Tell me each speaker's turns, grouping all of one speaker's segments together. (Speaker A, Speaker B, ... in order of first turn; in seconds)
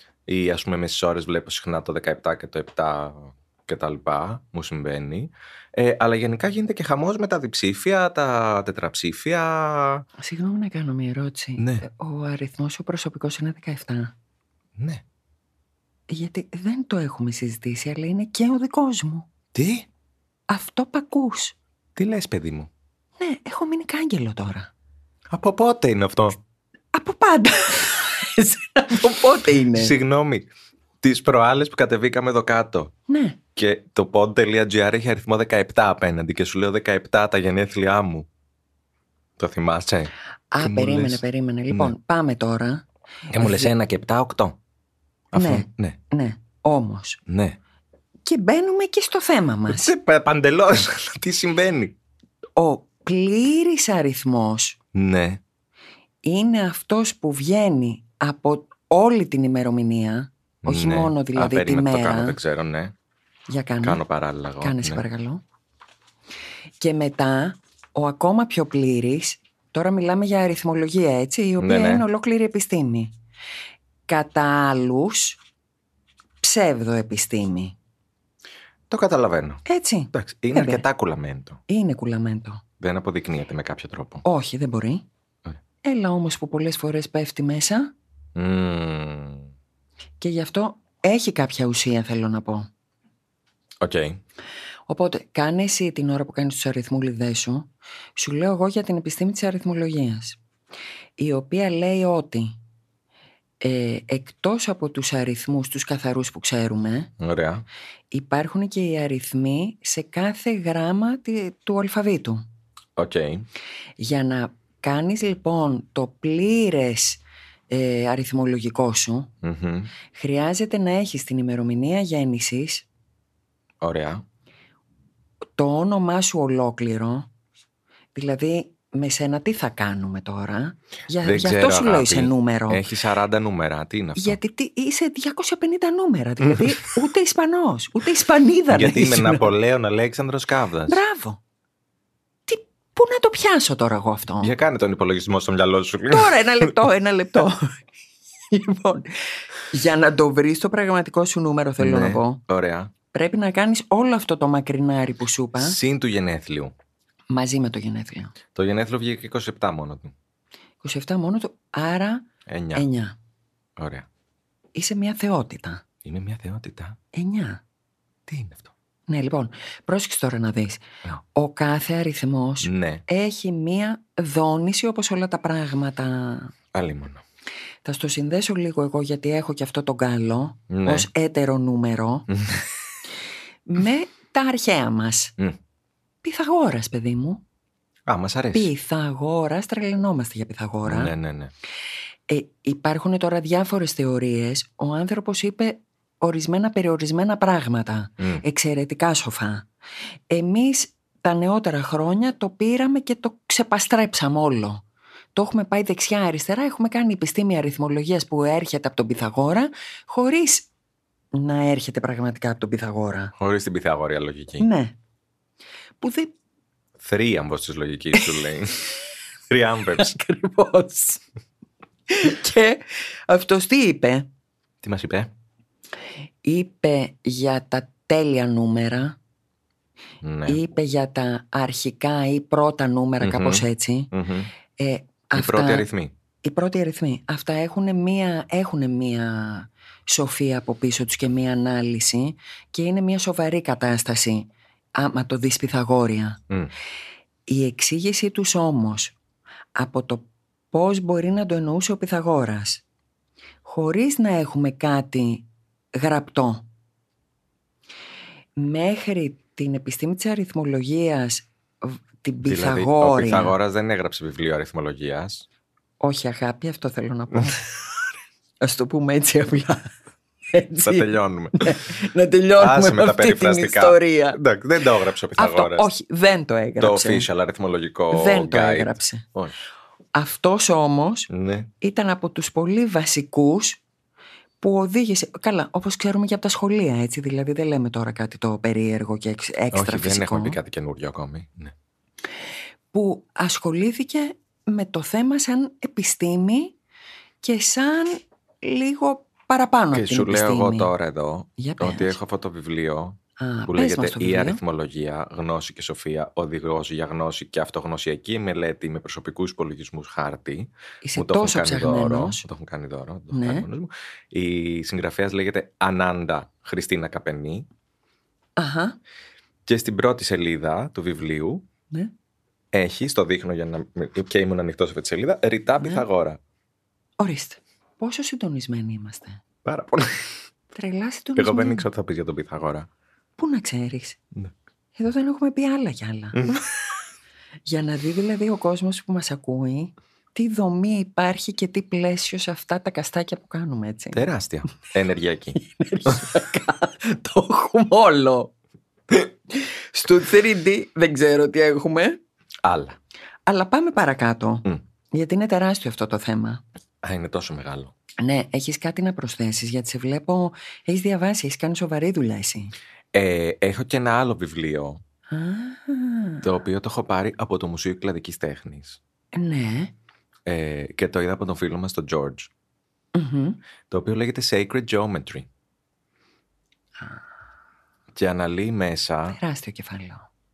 Speaker A: 0.3-10.0, 11.6-11.8, 14.8-15.0, 19.5-19.9, 22.0-22.7, 25.3-26.4, 29.7-30.5, 31.0-32.9, 33.6-38.3, 39.4-41.9, 43.3-44.6, 45.3-46.0, 47.3-47.6, 49.7-52.0, 54.9-55.4, 60.6-63.0, 63.8-65.0, 71.6-72.1, 78.9-81.6, 82.8-84.2, 88.3-89.5, 93.8-94.2, 107.2-107.7, 113.0-113.5, 119.4-119.9, 123.8-124.2, 131.2-134.4, 138.7-141.0, 144.4-146.7, 151.8-152.9, 155.6-156.7, 158.5-160.1, 162.5-162.9, 163.8-164.1, 166.1-167.0, 168.3-168.7, 172.6-173.0, 176.7-177.2, 180.7-181.1, 182.3-182.7, 188.1-188.7, 190.8-191.5, 213.4-214.7, 217.0-218.9, 219.5-220.2, 224.8-225.3, 230.2-230.6, 233.2-234.5, 235.3-236.1, 262.4-265.5, 270.8-271.7, 272.6-275.9, 276.8-279.5, 281.3-281.7, 289.7-291.7, 299.9-317.7, 319.7-321.6, 322.7-326.4, 329.6-330.3, 331.4-332.9, 336.4-336.6, 344.1-346.2, 352.6-353.0, 357.0-357.9, 363.1-365.0, 366.4-369.0, 370.5-372.5, 373.9-375.5, 378.1-379.4
Speaker B: 10.2-14.1, 16.1-19.3, 20.5-21.6, 23.2-24.7, 26.9-29.9, 33.1-33.4, 40.5-42.8, 43.4-43.7, 45.3-47.2, 48.2-49.9, 52.6-54.8, 56.2-62.4, 63.5-64.0, 64.6-65.4, 66.8-73.1, 74.1-75.4, 76.4-77.8, 79.7-80.8, 81.7-82.6, 84.2-85.0, 85.8-87.9, 90.2-92.7, 94.9-100.4, 101.2-102.5, 103.6-107.1, 108.1-112.5, 114.0-119.3, 120.1-122.8, 125.6-127.3, 128.1-132.8, 134.2-139.5, 140.9-141.4, 142.5-144.5, 146.1-147.8, 148.5-152.4, 153.1-155.8, 157.3-158.3, 160.8-163.2, 164.8-165.8, 167.1-167.6, 169.1-176.5, 177.8-182.3, 183.7-185.3, 186.2-187.4, 188.5-191.1, 192.3-199.7, 200.3-204.8, 205.3-210.7, 211.3-213.3, 214.6-214.9, 216.0-216.3, 219.9-221.2, 222.1-224.3, 226.4-229.2, 230.5-234.1, 234.8-235.9, 236.4-246.4, 247.5-249.2, 249.8-252.8, 253.6-256.6, 258.6-263.6, 266.0-267.6, 268.6-269.9, 270.5-274.4, 275.4-277.3, 278.1-279.2, 280.1-281.3, 281.8-283.8, 284.6-290.6, 292.9-296.8, 297.4-300.9, 301.6-302.2, 303.4-304.6, 311.0-312.4, 313.3-313.7, 318.6-319.0, 325.8-326.1, 327.2-329.4, 330.7-331.9, 333.4-334.2, 335.0-336.4, 337.7-344.2, 345.6-348.5, 349.6-352.2, 353.5-356.6, 358.2-362.7, 365.3-366.4, 369.3-369.9, 373.1-373.6, 379.3-380.3